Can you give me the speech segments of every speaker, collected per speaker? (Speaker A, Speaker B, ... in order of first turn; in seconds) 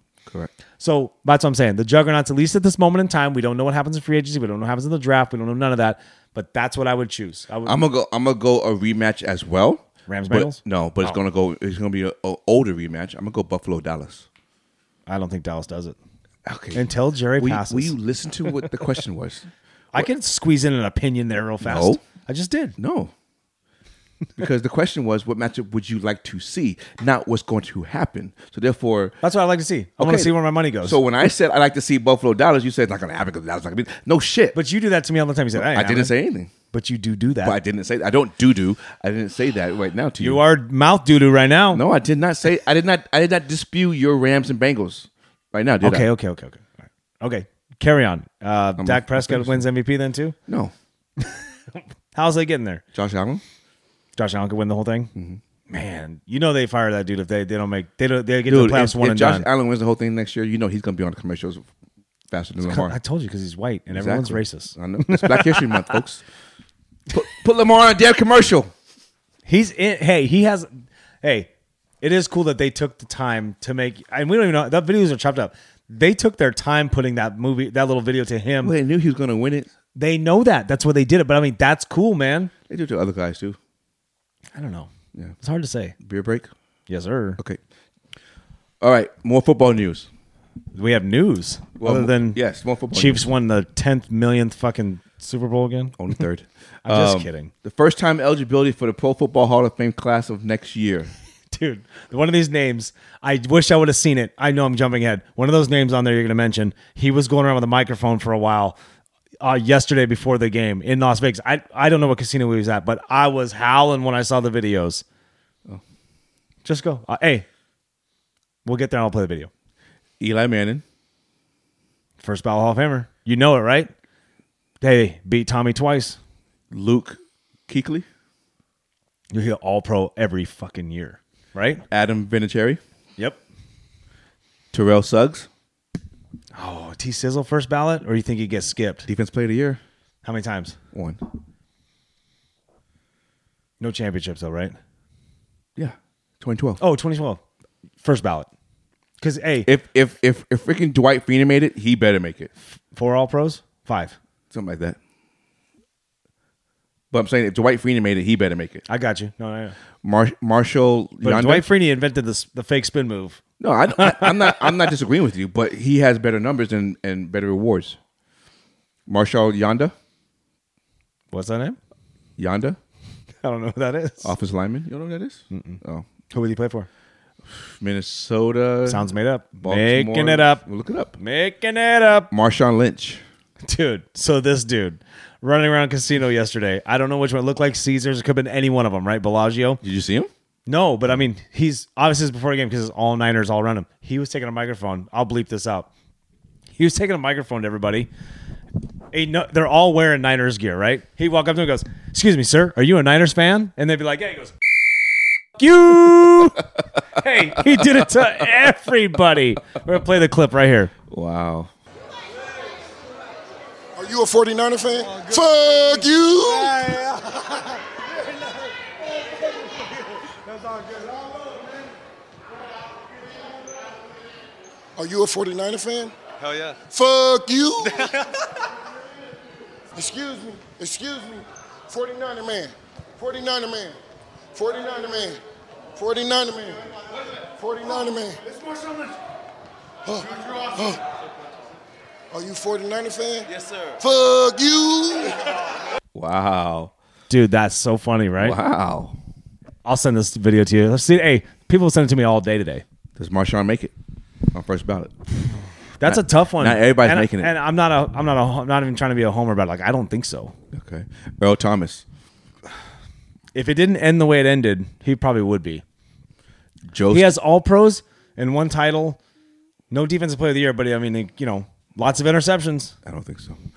Speaker A: 0.8-7.8, 10.1-11.1, 15.1-15.9, 16.7-17.9, 19.9-22.8, 29.2-31.0, 34.5-36.1, 36.7-37.5, 40.2-41.8, 45.8-50.4, 51.2-51.5, 52.1-52.8, 54.2-55.1, 55.7-59.5, 62.6-66.0, 69.5-70.7, 71.2-71.5, 72.0-78.7, 80.0-82.5, 84.5-84.9, 85.4-85.9, 86.9-87.4, 90.7-92.4, 92.9-96.0, 96.8-97.5, 101.5-108.8, 109.4-115.0, 116.6-117.5, 118.6-119.5, 122.2-123.9, 124.8-126.2, 129.3-131.8, 136.5-139.1, 140.2-140.8, 143.8-144.8, 146.8-147.4, 148.0-148.5, 149.2-149.7, 152.9-154.2, 158.9-159.7, 161.2-163.4, 163.9-164.8, 171.3-171.8, 173.4-174.3, 175.5-176.9, 178.8-180.6, 181.2-182.3, 183.6-189.8, 190.7-195.9, 196.8-198.1, 199.1-204.6, 205.6-210.9, 215.0-217.7, 220.7-221.1, 247.3-248.6, 249.8-252.8, 256.0-260.5, 263.5-265.8, 267.1-269.2, 269.9-272.9
Speaker B: 7.6-14.2, 16.4-16.8, 17.4-20.1, 21.6-22.0, 22.8-23.1, 24.4-29.1, 30.0-34.6, 35.5-36.5, 37.4-40.4, 41.7-46.1, 48.8-49.6, 50.5-50.7, 52.9-53.4, 55.1-55.4, 58.5-61.6, 62.3-63.0, 63.9-66.2, 67.1-68.7, 78.6-79.7, 82.7-83.6, 86.0-86.5, 88.8-90.1, 91.8-93.2, 96.0-101.1, 120.2-120.8, 126.7-128.1, 131.9-132.8, 134.7-135.5, 139.1-139.8, 140.9-141.2, 145.8-146.8, 149.6-152.5, 154.5-155.0, 157.1-158.8, 160.0-161.7, 163.6-168.0, 169.1-169.9, 172.4-172.8, 174.2-176.1, 177.5-179.1, 179.6-181.2, 182.3-183.2, 189.8-190.3, 211.1-211.7, 246.1-246.9, 248.4-249.2, 253.2-253.9, 254.5-255.1, 256.0-257.5, 260.7-262.0, 266.9-267.3, 273.0-273.6
Speaker C: 214.0-216.3, 225.0-226.1, 226.9-227.8, 229.9-233.9, 234.5-235.4, 236.0-236.8, 237.6-238.3, 240.1-241.0, 242.3-243.4, 244.0-245.3